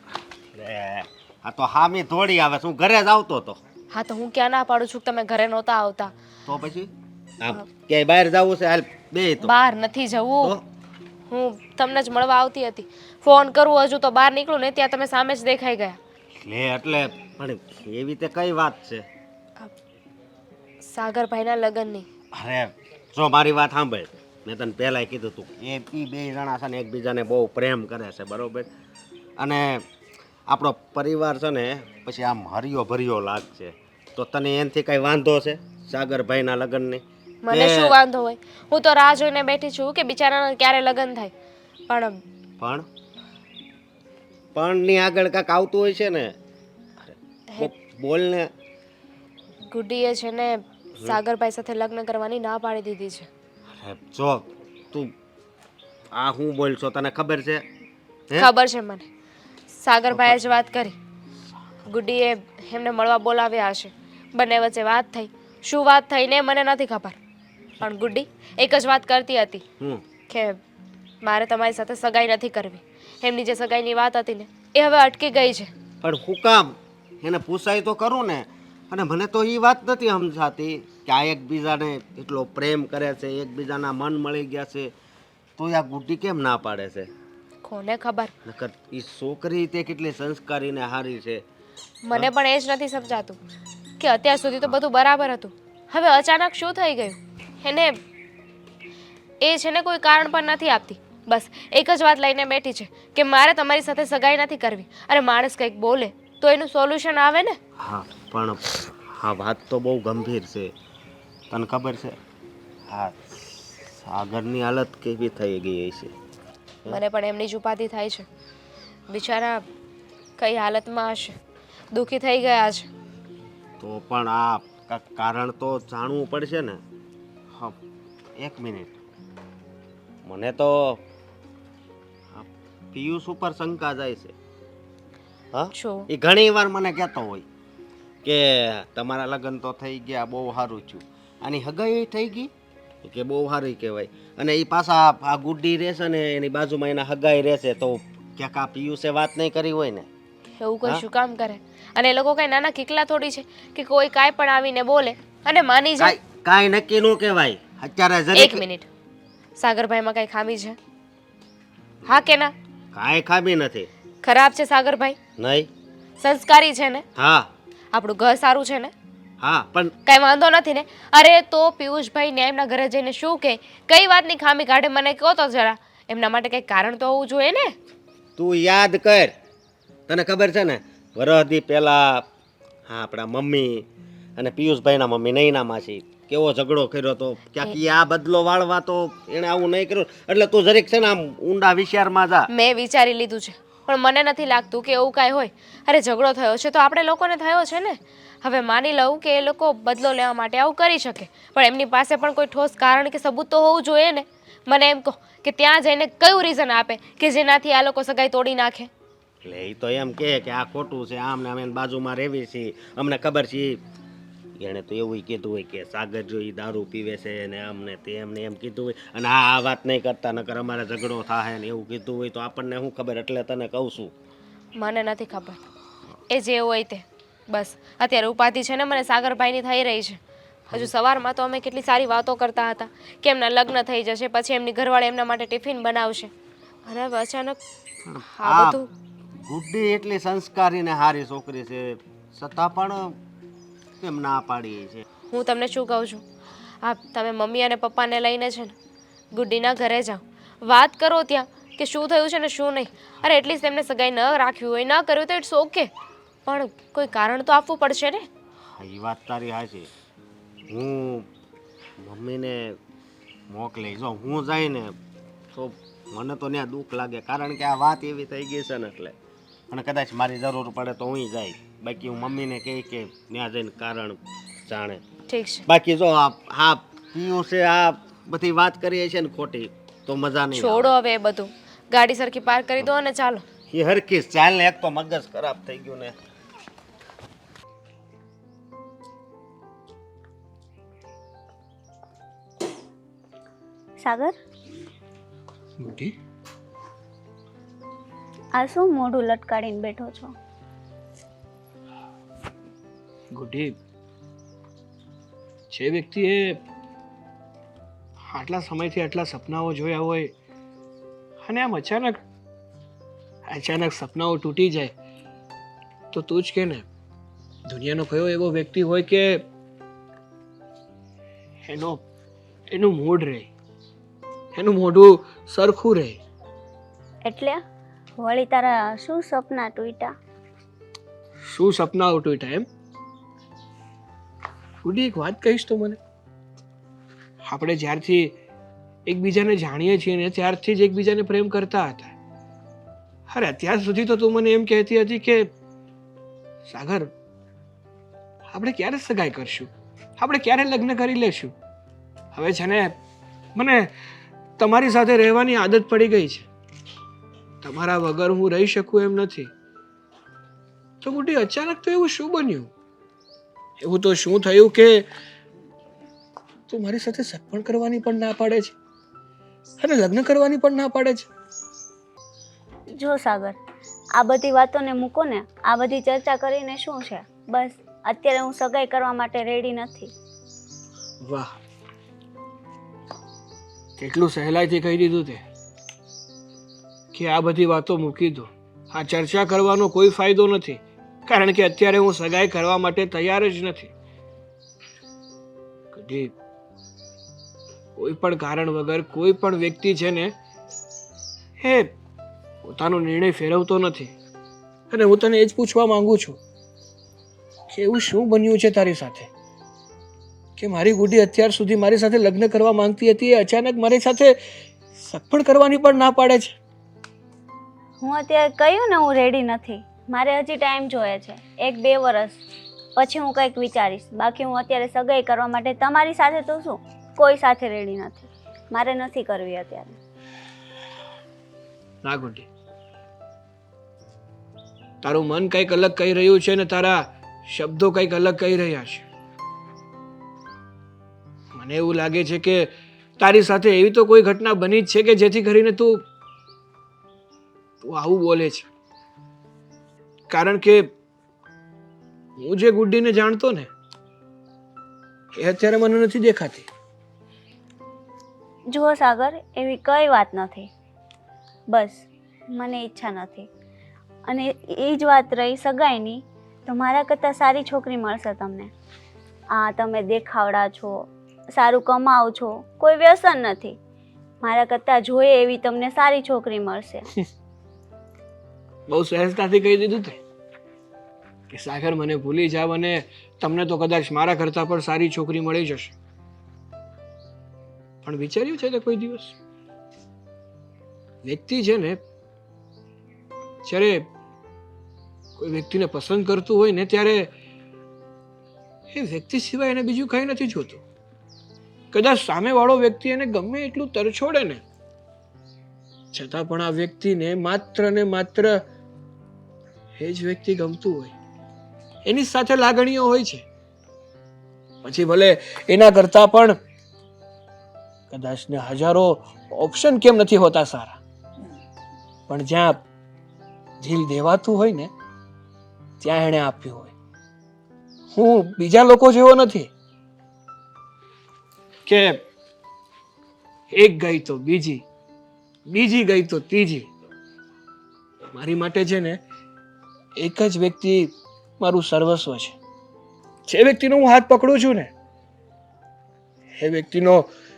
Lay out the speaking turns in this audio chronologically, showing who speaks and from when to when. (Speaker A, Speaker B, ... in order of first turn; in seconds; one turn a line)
Speaker A: 0.6-3.6
Speaker B: 3.9-6.1
Speaker A: 6.5-6.9
Speaker A: 7.4-9.5
Speaker B: 9.4-10.6
Speaker B: 11.3-16.0
Speaker A: 16.4-19.1
Speaker B: 20.8-22.1
Speaker A: 22.3-28.7
Speaker A: 29.4-29.8
Speaker A: 30.5-38.0
Speaker B: 37.5-41.3
Speaker B: 41.9-42.2
Speaker A: 42.6-42.9
Speaker A: 44.5-46.3
Speaker A: 47.6-48.5
Speaker B: 49.7-53.3
Speaker A: 53.8-55.1
Speaker A: 56.1-57.6
Speaker B: 58.4-59.1
Speaker B: 59.8-61.0
Speaker B: 61.9-67.2
Speaker B: 67.8-69.6
Speaker B: 70.3-70.6
Speaker B: 71.2-75.7
Speaker A: 76.0-84.9
Speaker A: 85.6-87.1
Speaker B: 87.6-88.3
Speaker A: 88.5-91.4
Speaker B: 92.0-93.4
Speaker B: 94.0-98.0
Speaker B: 99.4-107.6
Speaker A: 107.8-110.7
Speaker A: 111.5-112.2
Speaker A: 112.9-116.1
Speaker B: 116.9-118.3
Speaker B: 119.1-119.7
Speaker B: 120.4-121.4
Speaker B: 121.9-122.9
Speaker A: 123.8-126.8
Speaker A: 128.4-128.9
Speaker A: 130.3-131.0
Speaker A: 132.3-134.3
Speaker A: 135.5-137.4
Speaker B: 135.7-136.1
Speaker A: 138.2-142.5
Speaker A: 143.0-150.1
Speaker B: 150.6-156.2
Speaker A: 156.0-158.6
Speaker B: 158.3-158.9
Speaker B: 159.6-160.8
Speaker B: 162.1-162.5
Speaker A: 162.9-163.9
Speaker B: 164.2-165.2
Speaker A: 165.4-165.7
Speaker B: 166.2-167.1
Speaker A: 167.2-167.5
Speaker B: 167.9-168.9
Speaker A: 169.4-169.9
Speaker B: 170.1-177.8
Speaker A: 178.4-179.3
Speaker A: 180.1-182.2
Speaker A: 182.9-183.9
Speaker A: 184.4-192.5
Speaker B: 192.5-208.9
Speaker A: 209.4-213.8
Speaker A: 214.6-224.1
Speaker B: 224.8-225.6
Speaker B: 226.3-236.3
Speaker B: 236.9-237.6
Speaker A: 238.1-238.8
Speaker B: 238.3-238.9
Speaker A: 239.5-243.2
Speaker A: 244.0-245.0
Speaker B: 245.3-246.2
Speaker B: 246.8-248.7
Speaker B: 249.3-255.9
Speaker B: 256.5-258.3
Speaker A: 258.8-259.9
Speaker A: 260.7-261.3
Speaker A: 262.0-262.8
Speaker A: 263.5-264.9
Speaker A: 265.5-269.1
Speaker A: 269.7-275.0
Speaker B: 275.3-275.6
Speaker A: 275.7-280.9
Speaker B: 280.5-283.4
Speaker A: 283.7-286.1
Speaker C: 294.0-294.4
Speaker D: 295.8-296.1
Speaker C: 298.5-300.3
Speaker D: 303.3-303.8
Speaker D: 305.7-306.6
Speaker D: 308.3-310.3
Speaker D: 311.4-312.2
Speaker D: 313.5-314.9
Speaker D: 316.1-316.9
Speaker D: 317.7-319.4
Speaker D: 321.7-322.0
Speaker D: 322.7-323.5
Speaker D: 324.6-326.2
Speaker C: 327.2-327.6
Speaker C: 328.2-330.1
Speaker D: 331.5-332.7
Speaker D: 334.8-336.0
Speaker D: 337.4-338.4
Speaker D: 339.1-342.1
Speaker D: 343.3-345.5
Speaker D: 346.7-347.1
Speaker D: 348.5-351.5
Speaker D: 352.3-353.0
Speaker D: 353.6-353.9
Speaker D: 354.6-356.5
Speaker D: 357.6-359.5
Speaker D: 361.0-362.7
Speaker D: 363.8-365.1
Speaker D: 366.7-368.8
Speaker D: 369.8-371.3
Speaker C: 373.0-373.6
Speaker C: 374.2-380.1
Speaker D: 381.2-381.5
Speaker D: 384.0-385.4
Speaker D: 387.1-393.9
Speaker D: 395.9-396.3
Speaker D: 398.0-400.3
Speaker D: 401.6-401.9
Speaker D: 402.6-404.1
Speaker D: 404.9-406.4
Speaker D: 407.7-409.3
Speaker D: 410.6-414.4
Speaker D: 415.0-416.6
Speaker C: 418.0-422.4
Speaker C: 423.0-429.9
Speaker D: 432.0-432.5
Speaker D: 435.0-439.1
Speaker D: 441.5-446.0
Speaker D: 447.8-448.7
Speaker D: 450.3-450.9
Speaker D: 452.4-453.7
Speaker D: 455.4-456.7
Speaker C: 458.7-460.7
Speaker C: 461.7-463.5
Speaker C: 464.3-468.7
Speaker C: 469.5-473.8
Speaker C: 474.4-477.1
Speaker D: 478.9-480.2
Speaker D: 481.5-485.9
Speaker D: 488.0-489.4
Speaker D: 491.2-492.0
Speaker D: 493.6-494.1
Speaker D: 495.4-497.3
Speaker D: 498.9-500.8
Speaker D: 501.9-504.6
Speaker D: 506.1-508.6
Speaker D: 510.0-511.1
Speaker D: 512.0-513.5
Speaker D: 514.8-516.6
Speaker D: 518.1-521.0
Speaker D: 522.3-522.8
Speaker D: 523.8-524.9
Speaker D: 526.0-526.9
Speaker D: 528.1-529.7
Speaker D: 531.9-532.2
Speaker D: 533.7-534.8
Speaker D: 535.7-536.9
Speaker D: 538.3-539.2
Speaker D: 540.2-542.6
Speaker D: 543.5-544.9
Speaker D: 546.6-547.3